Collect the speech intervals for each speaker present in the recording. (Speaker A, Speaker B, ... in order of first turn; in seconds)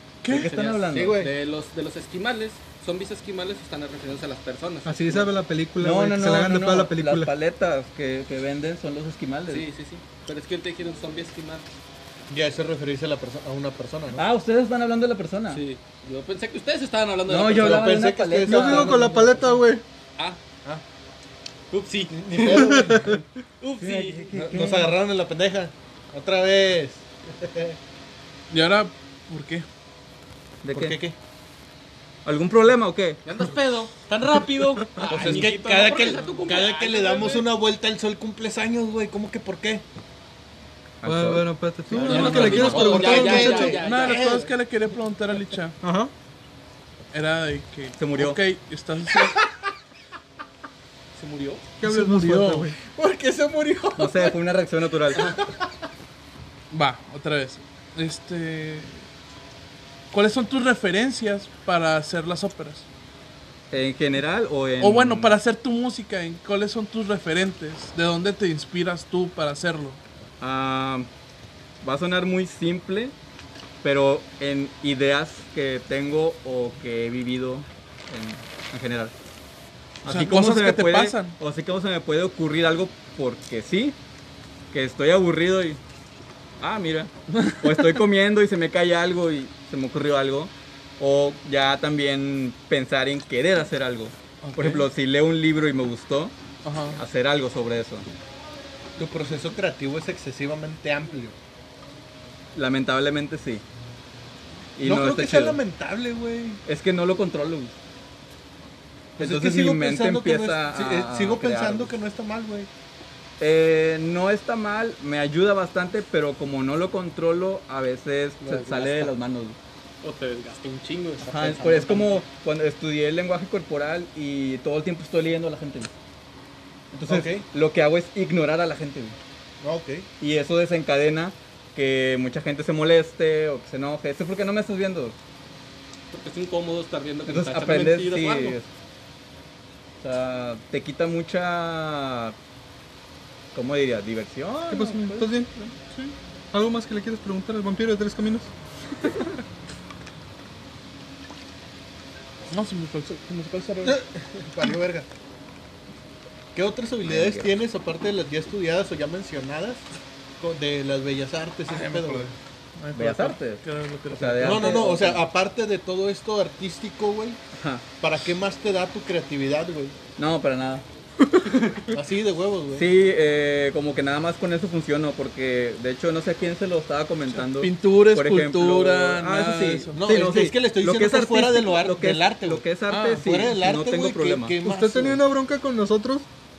Speaker A: 0.2-0.5, 28.5-29.6, 35.2-35.6, 43.3-45.8, 47.1-49.4, 51.8-52.7, 56.7-59.0, 60.1-62.8, 64.8-70.0, 80.1-81.3, 87.3-87.9, 94.4-94.9, 96.6-97.0, 145.9-146.1, 152.5-154.0, 161.7-164.8, 177.3-180.1, 182.9-183.3
Speaker B: 0.3-1.2, 5.8-9.7, 14.2-15.6, 17.3-19.1, 23.8-24.9, 30.6-31.0, 32.2-33.2, 41.0-43.4, 48.0-48.4, 54.0-55.3, 63.7-65.3, 70.4-71.1, 71.8-73.1, 73.8-79.1, 80.0-84.0, 84.7-85.8, 86.6-96.3, 96.9-98.0, 102.5-103.6, 104.8-105.6, 106.7-107.7, 109.2-111.9, 113.4-119.5, 121.2-125.9, 126.9-129.2, 130.2-135.2, 137.2-138.7, 140.0-142.3, 143.5-145.3, 157.1-157.5, 162.9-165.2, 167.5-167.8, 170.2-170.8, 172.7-184.5
Speaker C: 0.3-5.3, 9.5-11.7, 15.5-18.1, 21.7-22.9, 23.6-24.4, 33.2-37.4, 41.9-44.4, 51.1-51.7, 55.1-55.4, 118.4-119.1, 120.0-122.2, 136.1-138.6
Speaker D: 0.9-1.3, 12.3-14.2, 17.6-19.4, 22.1-23.2, 24.3-27.8, 30.7-31.1, 35.0-39.8, 42.1-44.5, 49.2-49.6, 52.8-54.4, 55.1-55.7, 99.0-101.3, 104.8-106.6, 109.2-112.7, 127.1-127.4, 129.6-130.1, 153.8-155.1, 156.5-159.8, 160.4-162.3, 164.4-167.4, 168.0-170.0, 171.9-172.9, 179.9-182.6, 183.2-185.2
Speaker E: 4.8-7.3, 18.5-19.8, 22.6-23.2, 41.0-43.8, 45.8-46.1, 51.8-52.8, 144.7-145.5, 146.5-148.5, 184.6-186.3